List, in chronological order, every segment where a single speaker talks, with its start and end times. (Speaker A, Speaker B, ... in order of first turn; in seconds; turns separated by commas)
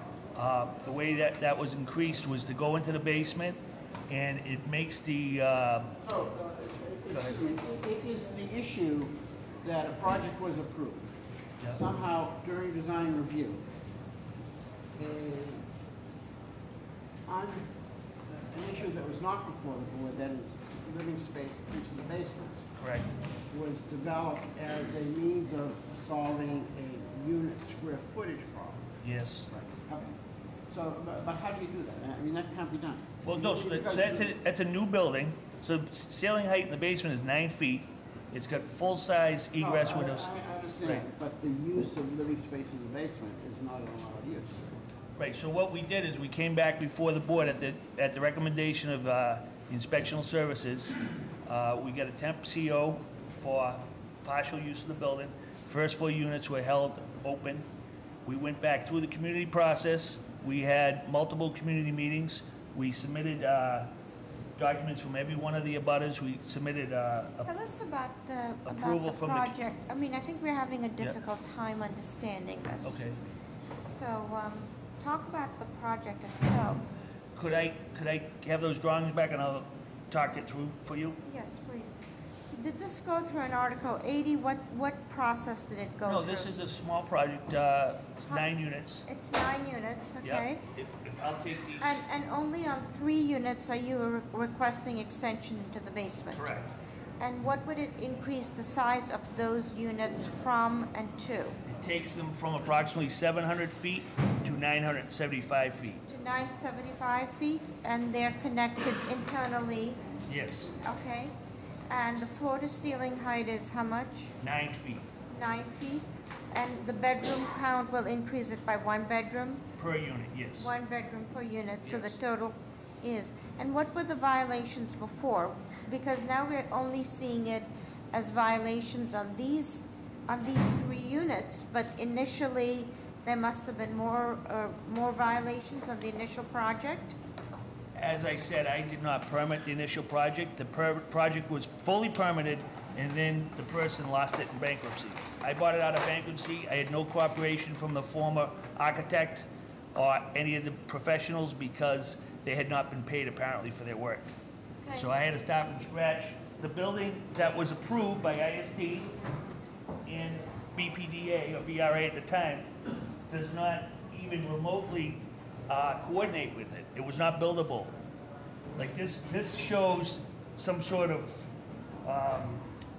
Speaker A: 0.3-6.0, Speaker B: 6.0-11.1, Speaker B: 11.7-13.6, Speaker B: 15.0-15.7, Speaker B: 17.3-17.7, Speaker B: 18.4-22.6, Speaker A: 22.8-23.1, Speaker B: 23.5-28.9, Speaker A: 29.0-29.5, Speaker B: 29.5-30.1, Speaker B: 30.7-34.3, Speaker A: 33.2-40.3, Speaker B: 39.6-44.7, Speaker A: 45.2-57.7, Speaker A: 58.2-63.9, Speaker A: 64.6-67.5, Speaker C: 67.4-73.0, Speaker A: 68.7-69.5, Speaker A: 72.8-73.2, Speaker C: 73.8-76.9, Speaker A: 77.3-81.2, Speaker C: 81.2-86.5, Speaker A: 86.1-89.0, Speaker C: 89.0-90.6, Speaker A: 90.2-92.0, Speaker C: 91.8-96.6, Speaker A: 96.4-96.7, Speaker C: 97.2-101.6, Speaker A: 101.7-106.0, Speaker C: 106.1-110.0, Speaker A: 110.3-110.8, Speaker C: 110.8-111.3, Speaker C: 111.9-114.3, Speaker A: 114.4-115.1, Speaker C: 115.3-119.7, Speaker A: 119.8-120.7, Speaker C: 120.6-137.2, Speaker A: 121.8-122.2, Speaker A: 137.9-154.3, Speaker A: 154.9-159.2, Speaker A: 160.1-162.7, Speaker A: 163.3-167.9, Speaker A: 168.8-171.5, Speaker A: 172.0-172.6